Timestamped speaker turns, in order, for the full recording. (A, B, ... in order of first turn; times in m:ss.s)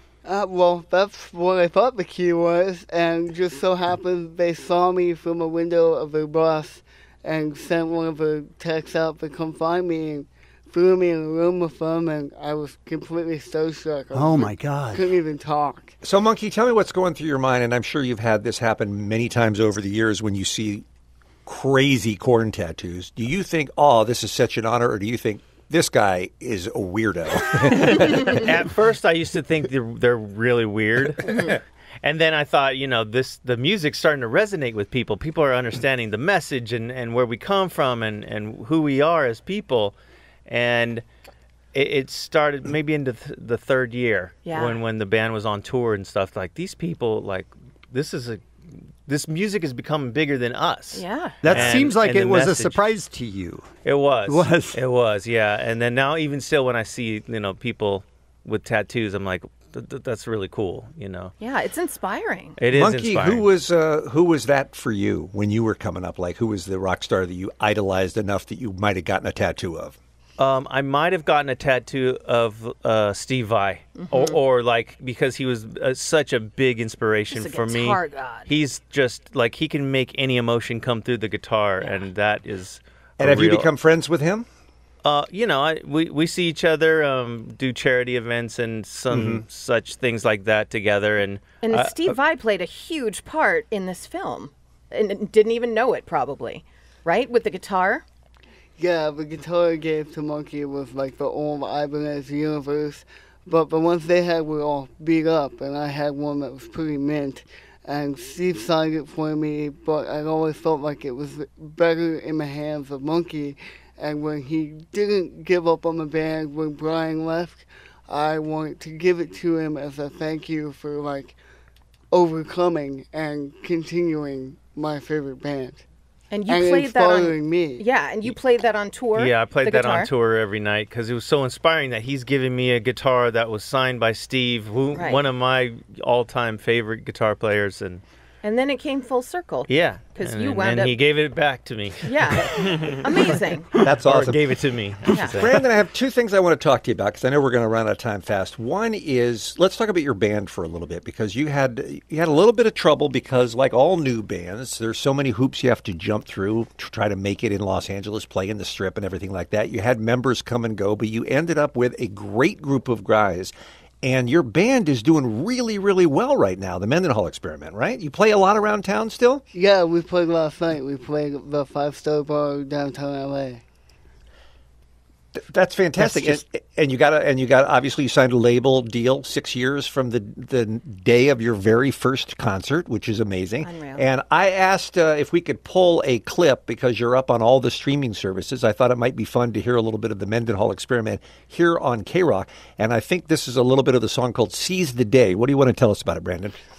0:00.2-0:15.9 A
0:14.1-0:15.0 B
0:16.0-0:20.8 C
0:21.4-0:28.5 C
0:28.2-0:39.9 D
0:40.4-0:41.0 D
0:41.7-0:48.4 D
0:44.4-0:44.8 E
0:49.0-0:52.8 D
0:50.9-0:51.6 E
0:51.4-0:53.7 B
0:53.8-1:01.3 D
0:54.2-0:54.8 B
1:01.4-1:02.6 E
1:02.6-1:03.5 D
1:02.7-1:10.0 C
1:10.4-1:23.7 D
1:14.0-1:14.3 E
1:17.3-1:18.5 E
1:21.8-1:22.0 E
1:23.2-1:24.5 C
1:25.0-1:32.2 D
1:29.1-1:29.4 C
1:31.6-1:38.0 E
1:38.8-2:01.4 A
2:02.1-2:05.8 A
2:06.3-2:10.1 E
2:06.5-2:07.8 A
2:09.1-2:18.0 D
2:14.9-2:15.2 E
2:18.4-2:21.0 E
2:19.7-2:23.4 D
2:22.0-2:23.7 E
2:23.8-2:24.4 C
2:24.0-2:25.6 D
2:25.1-2:49.4 C
2:25.1-2:25.4 E
2:49.5-2:53.6 A
2:55.4-3:16.6 C
2:56.0-2:56.4 B
3:03.6-3:04.0 E